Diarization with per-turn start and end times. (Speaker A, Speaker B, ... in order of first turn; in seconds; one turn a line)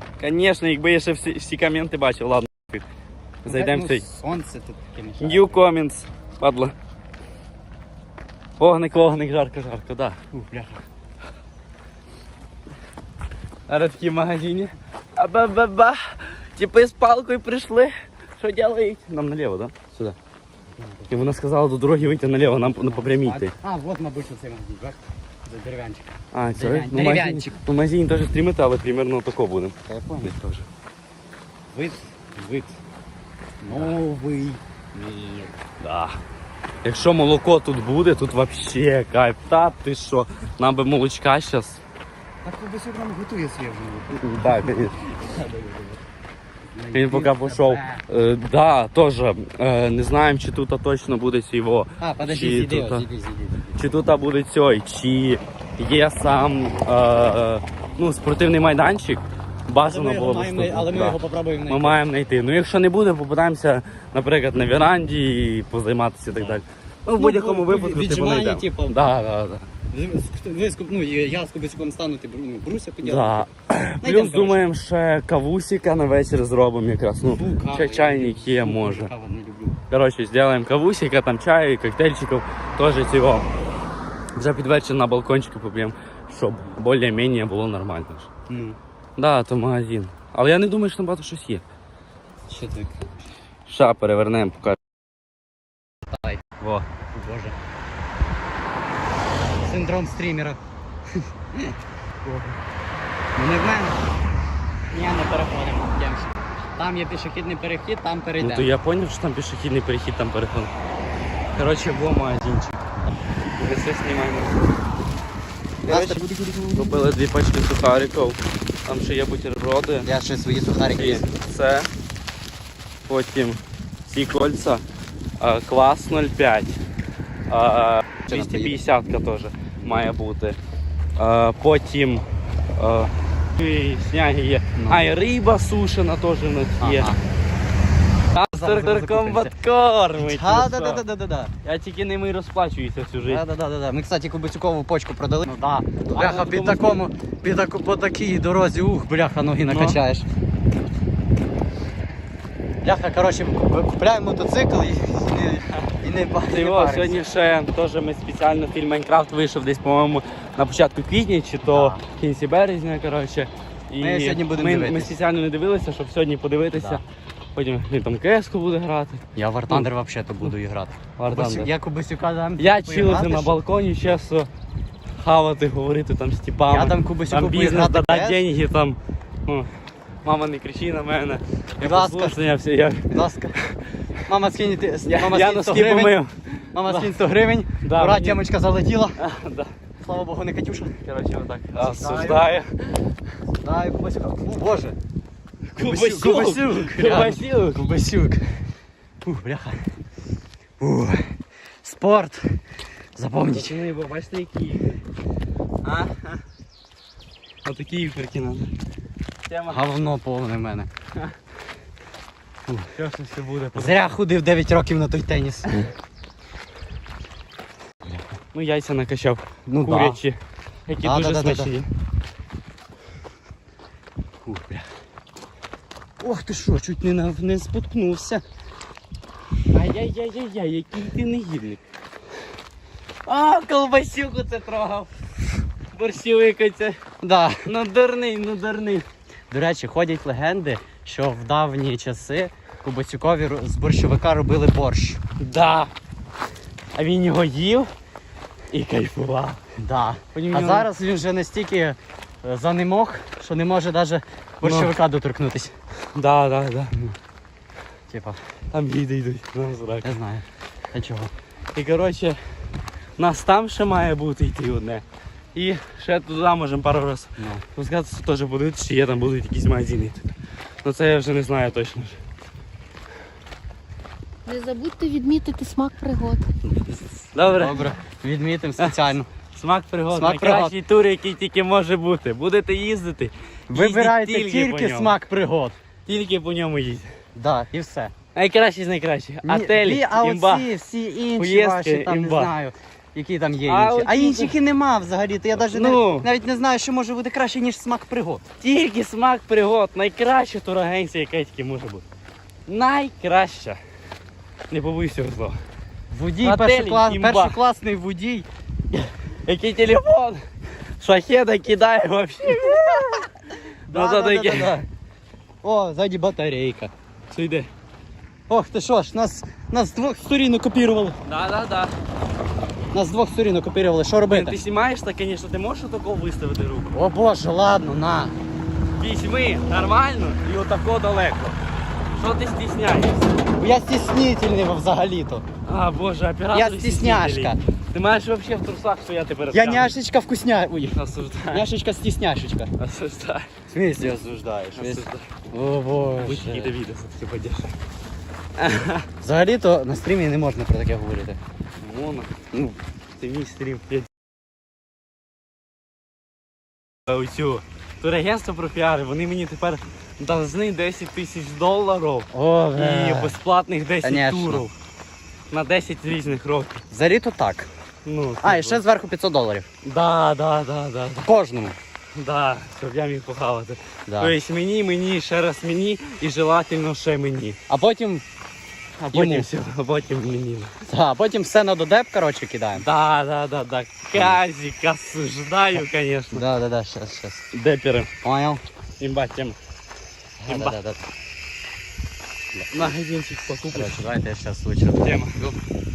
Speaker A: 0.2-2.8
Speaker A: 3.4-4.0
Speaker B: 3.4-5.6
Speaker A: 5.2-6.7
Speaker A: 8.6-10.2
Speaker B: 10.3-10.8
Speaker A: 13.7-20.1
Speaker B: 20.8-21.3
Speaker A: 21.1-23.5
Speaker B: 22.6-27.6
Speaker A: 26.3-30.7
Speaker B: 29.9-30.3
Speaker B: 31.7-32.8
Speaker B: 33.6-35.6
Speaker A: 33.7-34.0
Speaker A: 35.8-36.2
Speaker A: 36.8-41.8
Speaker B: 42.4-46.0
Speaker A: 44.1-45.1
Speaker B: 46.7-48.0
Speaker A: 46.9-53.0
Speaker B: 52.0-53.8
Speaker A: 53.7-69.7
Speaker B: 59.8-62.0
Speaker B: 67.2-69.2
Speaker B: 69.9-73.5
Speaker A: 73.0-79.1
Speaker B: 74.0-74.6
Speaker B: 77.2-79.8
Speaker A: 79.9-83.5
Speaker A: 84.3-88.3
Speaker B: 88.5-88.8
Speaker A: 89.2-91.6
Speaker B: 92.5-93.1
Speaker A: 93.7-94.8
Speaker B: 96.1-96.4
Speaker A: 96.6-96.9
Speaker B: 97.1-97.6
Speaker B: 99.6-100.6
Speaker B: 101.2-102.6
Speaker B: 103.3-104.0
Speaker B: 104.9-108.7
Speaker A: 108.4-110.7
Speaker A: 111.5-112.8
Speaker A: 113.6-114.6
Speaker A: 115.8-120.1
Speaker B: 115.8-117.0
Speaker B: 120.0-121.3
Speaker A: 120.9-121.9
Speaker A: 123.1-124.8
Speaker A: 125.4-126.8
Speaker A: 127.5-130.6
Speaker B: 128.3-128.8
Speaker B: 129.8-130.1
Speaker A: 131.2-137.1
Speaker B: 134.8-135.0
Speaker B: 136.8-137.2
Speaker A: 138.3-141.0
Speaker B: 138.5-139.5
Speaker B: 140.2-141.5
Speaker A: 141.6-143.4
Speaker B: 143.2-150.3
Speaker A: 146.1-147.1
Speaker A: 149.6-150.0
Speaker B: 152.8-157.2
Speaker A: 156.4-167.0
Speaker B: 161.7-162.0
Speaker B: 164.0-165.1
Speaker B: 166.7-167.0
Speaker A: 167.5-169.9
Speaker B: 169.3-173.6
Speaker A: 171.2-171.7
Speaker A: 172.6-174.5
Speaker A: 175.1-179.7
Speaker B: 176.7-178.4
Speaker A: 180.2-183.8
Speaker B: 181.8-182.4
Speaker B: 183.1-183.6
Speaker B: 184.2-186.2
Speaker A: 185.1-187.2
Speaker B: 186.7-189.2
Speaker A: 187.8-188.4
Speaker A: 189.2-189.8
Speaker B: 190.0-191.1
Speaker A: 191.0-193.2
Speaker B: 191.7-192.5
Speaker B: 193.6-195.0
Speaker A: 195.7-197.8
Speaker B: 195.8-198.6
Speaker B: 199.2-199.9
Speaker B: 200.8-202.6
Speaker B: 203.1-203.8
Speaker A: 203.4-205.0
Speaker A: 205.8-206.4
Speaker A: 207.6-208.7
Speaker A: 209.4-210.0
Speaker B: 209.7-210.9
Speaker B: 212.7-212.9
Speaker A: 212.9-214.1
Speaker B: 213.7-215.9
Speaker A: 218.5-221.9
Speaker B: 219.7-220.2
Speaker B: 221.0-221.8
Speaker B: 224.4-224.9
Speaker B: 226.2-228.4
Speaker A: 229.7-231.8
Speaker A: 233.2-235.1
Speaker A: 235.9-237.0
Speaker B: 237.2-237.7
Speaker A: 237.6-239.1
Speaker B: 239.5-245.2
Speaker A: 245.4-245.9
Speaker A: 246.9-247.9
Speaker A: 248.7-249.6
Speaker B: 249.8-255.7
Speaker A: 250.3-250.9
Speaker A: 254.6-254.9
Speaker A: 256.1-256.9
Speaker B: 258.1-258.4
Speaker A: 258.7-260.1
Speaker B: 260.0-261.3
Speaker A: 261.7-262.4
Speaker A: 263.2-265.0
Speaker A: 265.5-272.2
Speaker B: 267.4-267.6
Speaker C: 274.4-276.5
Speaker A: 276.8-277.9
Speaker B: 277.4-279.3
Speaker A: 278.8-285.2
Speaker B: 280.1-280.7
Speaker B: 283.7-285.8
Speaker A: 286.1-287.1
Speaker B: 287.4-288.1
Speaker A: 288.3-290.7
Speaker B: 289.4-298.4
Speaker A: 291.3-292.5
Speaker A: 293.6-294.6
Speaker A: 295.5-296.3
Speaker A: 298.6-302.0
Speaker A: 302.7-303.8
Speaker A: 304.7-305.6
Speaker B: 306.1-308.5
Speaker A: 306.4-307.6
Speaker A: 308.9-310.4
Speaker A: 311.0-313.2
Speaker B: 312.6-313.2
Speaker A: 313.9-314.9
Speaker B: 313.9-314.8
Speaker B: 315.6-316.9
Speaker A: 317.3-317.7
Speaker B: 318.5-321.2
Speaker A: 321.2-321.9
Speaker B: 322.9-324.6
Speaker A: 324.3-326.9
Speaker B: 326.9-328.3
Speaker A: 329.0-333.4
Speaker B: 333.6-335.4
Speaker A: 335.6-339.9
Speaker B: 336.5-337.6
Speaker B: 339.5-341.0
Speaker A: 340.9-341.7
Speaker B: 341.5-342.7
Speaker A: 342.8-343.5
Speaker B: 343.7-346.7
Speaker A: 344.8-345.4
Speaker A: 346.2-347.8
Speaker A: 348.6-349.1
Speaker B: 349.2-351.4
Speaker A: 351.8-352.3
Speaker B: 352.5-352.8
Speaker A: 353.2-354.1
Speaker A: 357.1-364.7
Speaker B: 362.3-363.4
Speaker B: 364.0-364.6
Speaker A: 365.5-366.8
Speaker B: 366.9-367.7
Speaker A: 368.0-368.8
Speaker B: 368.4-369.7
Speaker A: 369.8-371.3
Speaker B: 371.2-371.8
Speaker A: 372.1-377.6
Speaker B: 374.1-374.4
Speaker B: 377.7-378.2
Speaker A: 379.0-380.7
Speaker B: 379.1-379.5
Speaker B: 380.8-382.9
Speaker A: 382.7-386.4
Speaker B: 384.1-384.4
Speaker B: 386.3-387.4
Speaker A: 387.5-388.1
Speaker B: 388.2-388.6
Speaker A: 389.0-389.6
Speaker B: 390.4-391.0
Speaker A: 390.4-390.8
Speaker A: 392.7-394.1
Speaker B: 393.7-395.6
Speaker A: 395.0-395.4